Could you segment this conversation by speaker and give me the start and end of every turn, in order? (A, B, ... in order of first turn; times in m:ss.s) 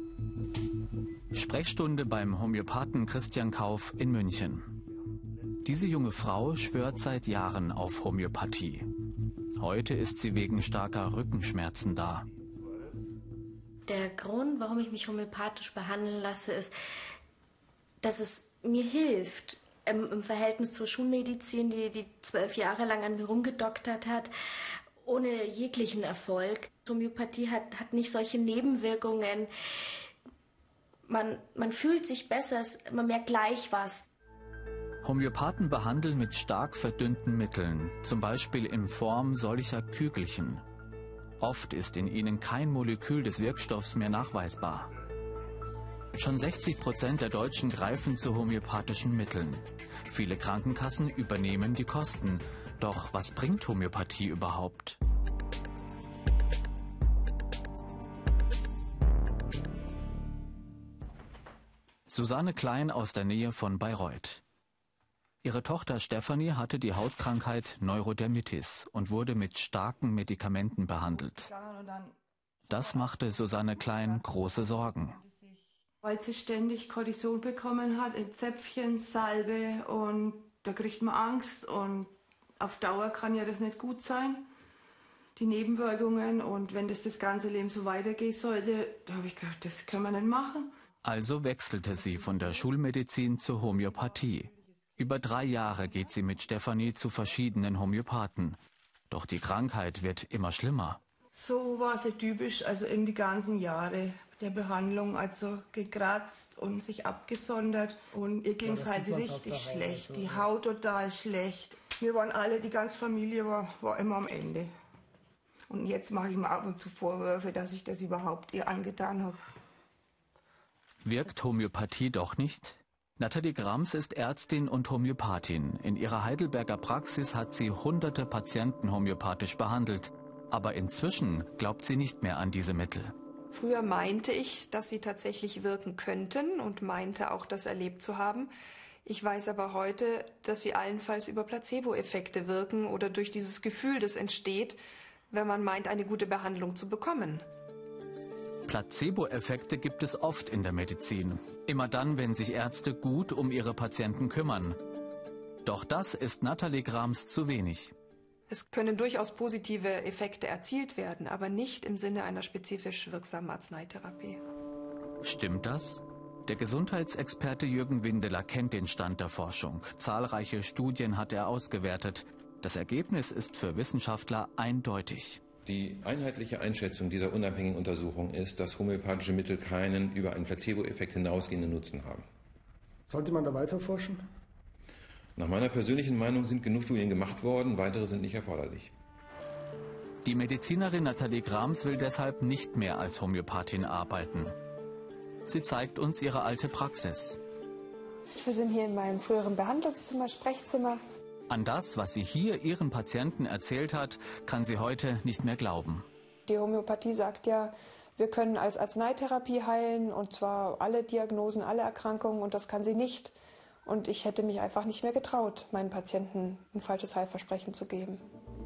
0:01.3-0:04.7 A
0:05.6-0:08.9 A
0:09.6-0:12.3 A
0:13.9-0:16.7 B
0:18.0-0:24.3 B
0:25.0-0:29.5 B
0:31.1-0:34.0 B
0:35.0-0:40.6 A
0:41.4-0:44.9 A
0:46.2-0:55.0 A
1:02.1-1:04.4 A
1:05.4-1:11.5 A
1:11.1-1:13.2 C
1:12.7-1:15.2 A
1:13.9-1:24.5 C
1:25.4-1:30.7 C
1:31.0-1:38.6 A
1:39.1-1:41.0 A
1:41.3-1:54.7 C
1:48.6-1:50.4 D
1:55.7-1:59.4 C
2:01.0-2:13.1 A
2:13.5-2:18.5 E
2:19.0-2:24.8 E
2:25.3-2:27.4 E
2:28.7-2:34.8 A
2:35.6-2:37.9 A
2:38.5-2:44.4 E
2:45.2-2:55.4 A
2:55.7-3:02.3 F
3:03.1-3:04.3 D
3:05.4-3:08.9 F
3:10.2-3:14.5 A
3:15.5-3:17.4 A
3:18.4-3:21.0 E
3:21.5-3:26.1 A
3:26.5-3:33.3 E
3:33.8-3:38.2 E